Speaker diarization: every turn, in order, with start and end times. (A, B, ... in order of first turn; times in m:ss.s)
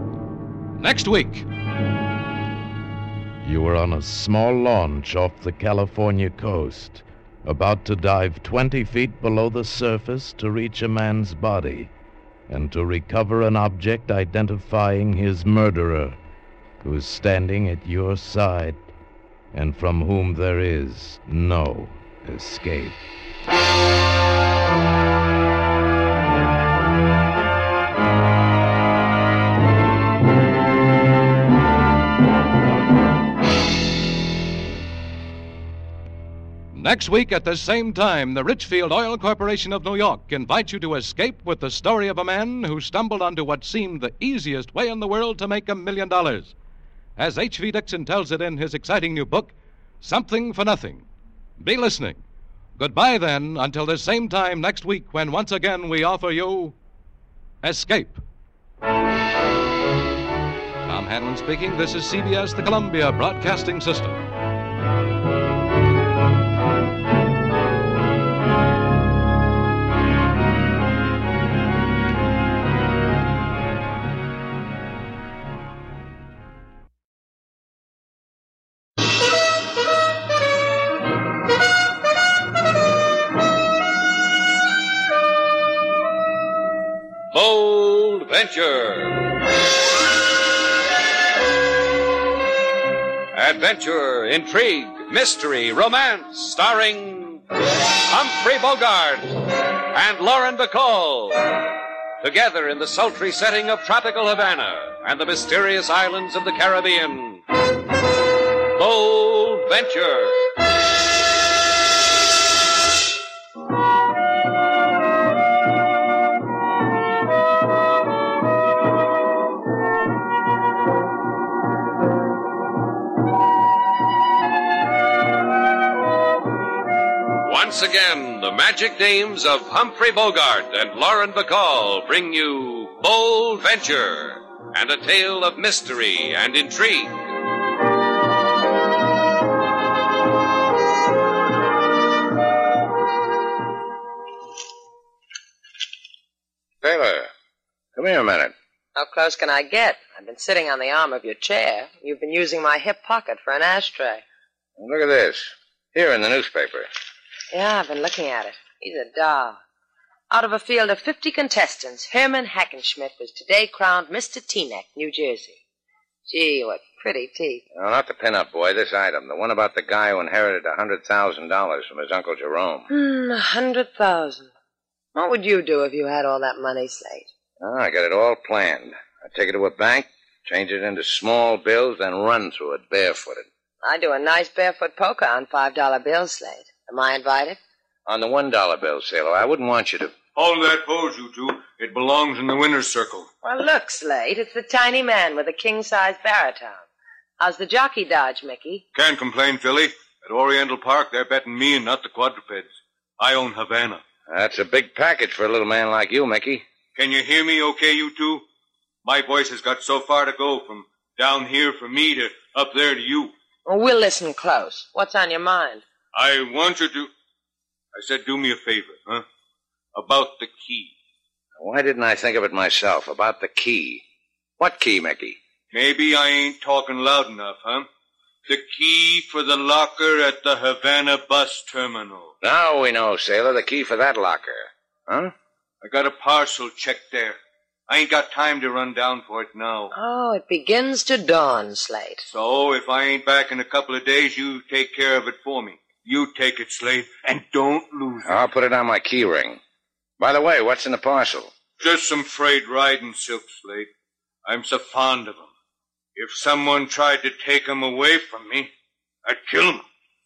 0:00.8-0:01.4 A
0:03.4-0:11.9 B
0:12.5-0:16.2 B
0:16.8-0:18.8 B
0:19.5-0:23.0 B
0:36.7-0:46.5 A
0:47.2-0:51.0 A
0:51.6-0:52.2 A
0:52.8-0:56.7 A
0:57.6-0:58.2 A
1:00.8-1:04.2 A
1:27.3-1:29.2 C
1:33.3-1:37.4 C
1:38.0-1:39.4 C
1:39.9-1:41.6 C
1:42.2-1:47.4 C
1:48.7-1:50.4 C
2:07.4-2:17.2 C
2:26.8-2:27.3 D
2:28.0-2:28.5 D
2:29.0-2:34.2 E
2:34.8-2:36.9 D
2:37.5-2:39.6 E
2:40.3-2:45.6 E
2:46.3-2:47.6 E
2:47.7-2:52.8 D
2:52.9-2:54.5 E
2:55.1-2:57.3 E
2:57.6-3:03.4 D
3:03.8-3:07.6 E
3:08.1-3:10.2 D
3:10.3-3:13.3 F
3:13.4-3:16.8 E
3:17.4-3:18.8 E
3:18.9-3:24.0 F
3:24.3-3:26.6 D
3:26.9-3:28.4 F
3:29.0-3:33.3 F
3:33.6-3:35.8 E
3:36.1-3:37.1 F
3:37.9-3:39.2 F
3:39.9-3:40.9 F
3:41.6-3:44.0 D
3:44.6-3:45.4 D
3:45.7-3:47.9 F
3:48.5-3:52.3 F
3:52.4-3:55.3 D
3:55.8-3:59.9 F
3:59.9-4:02.2 E
4:02.3-4:08.3 F
4:08.2-4:09.6 D
4:10.2-4:11.5 D
4:11.8-4:13.9 F
4:14.4-4:15.5 F
4:16.2-4:18.7 F
4:19.2-4:19.8 F